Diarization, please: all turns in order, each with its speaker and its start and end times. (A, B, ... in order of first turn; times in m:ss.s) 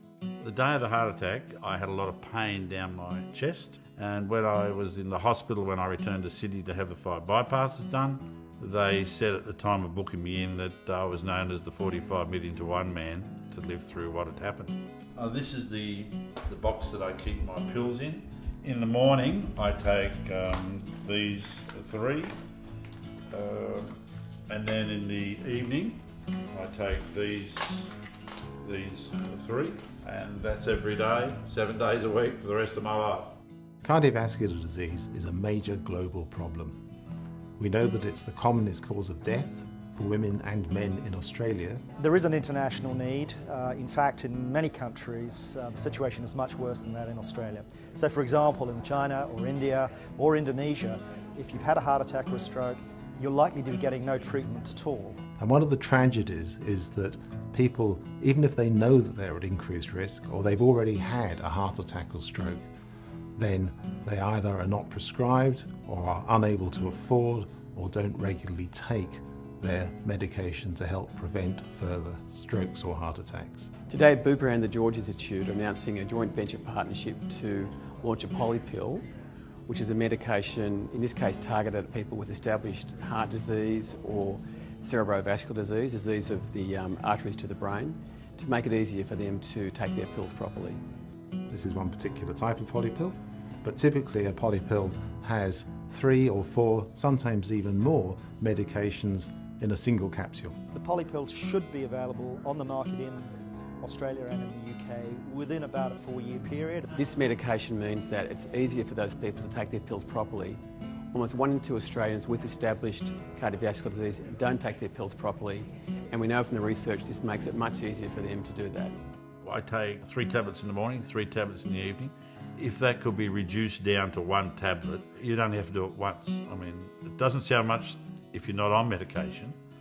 0:00.4-0:22.4 A
0:23.3-0:24.0 A
0:24.5-0:27.9 A
0:28.6-0:33.4 A
0:33.8-0:36.8 B
0:37.6-0:41.8 B
0:42.0-0:55.2 C
0:55.4-1:02.6 B
1:03.4-1:13.7 B
1:13.9-1:19.0 D
1:19.7-1:30.8 D
1:31.5-1:40.6 B
1:40.7-1:46.9 C
1:46.9-1:50.6 D
1:51.1-1:59.0 D
1:59.4-2:09.6 A